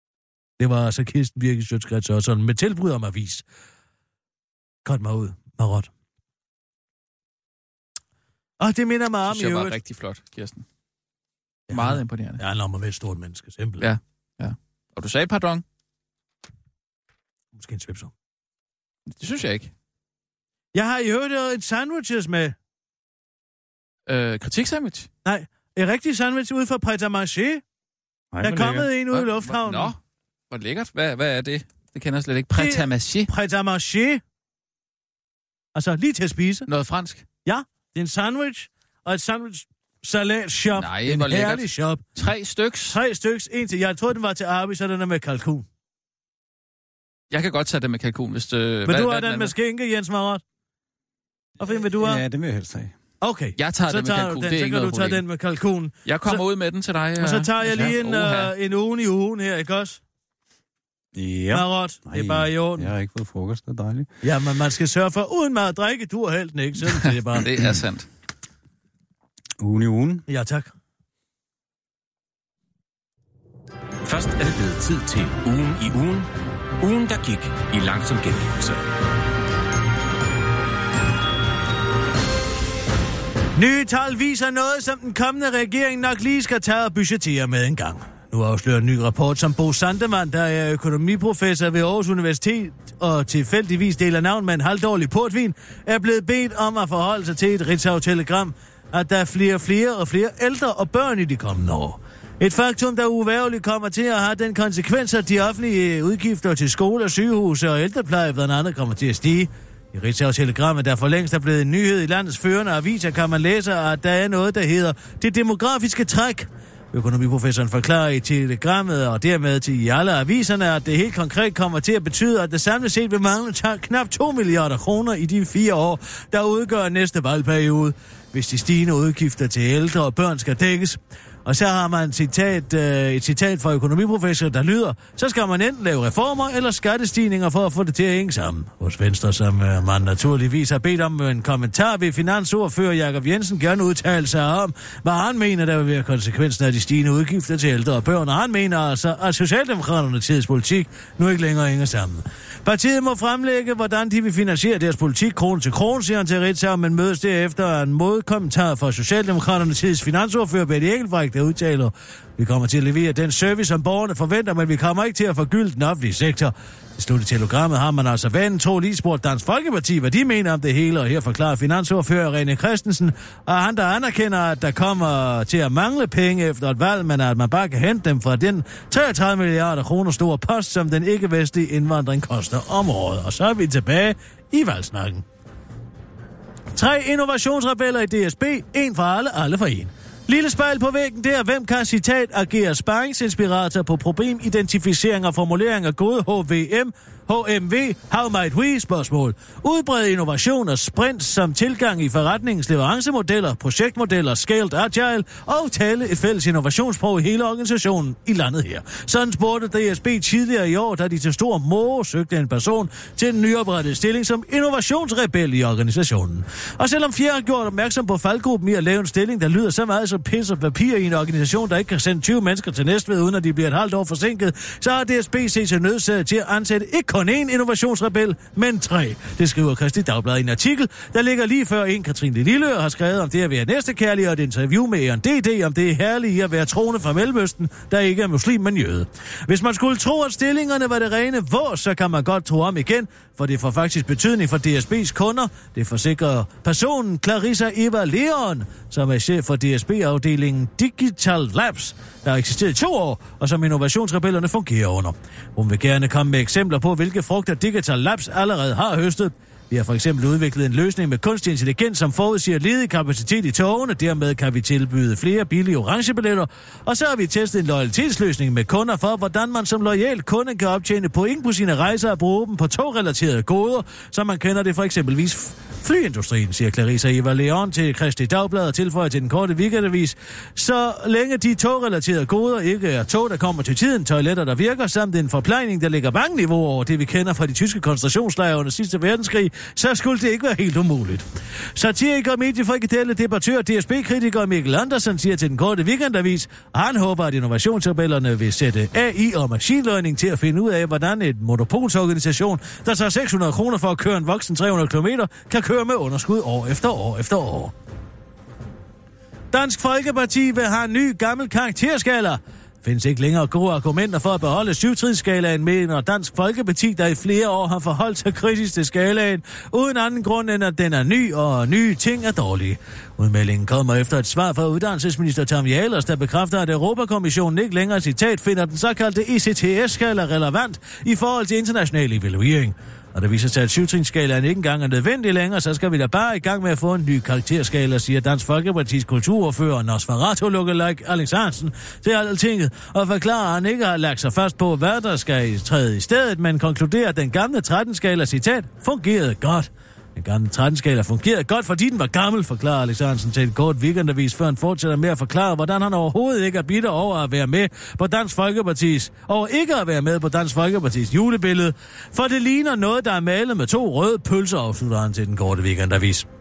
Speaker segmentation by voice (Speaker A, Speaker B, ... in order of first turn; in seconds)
Speaker A: 0.6-3.4, 4.8-5.9, 8.6-9.8, 11.7-13.9, 17.5-18.1, 20.7-22.6, 25.2-27.6, 28.4-29.9, 32.5-34.2, 35.7-36.7, 37.4-42.0, 42.9-45.6, 48.9-50.4, 51.6-52.2, 53.2-56.4, 57.2-60.0, 61.5-62.9, 64.2-67.5, 70.3-70.7, 83.5-185.2, 186.7-307.7, 309.5-366.3
Speaker B: 9.3-10.6, 11.7-12.4, 13.8-15.6, 19.1-19.7, 24.1-25.1, 29.1-30.0, 30.5-33.3, 36.7-37.2, 40.7-43.0, 47.3-49.5, 53.6-55.2, 56.0-58.5, 66.9-68.1
Speaker C: 28.3-28.9, 51.9-52.9, 61.1-64.1, 69.6-70.2
Speaker D: 74.0-76.3, 76.8-78.8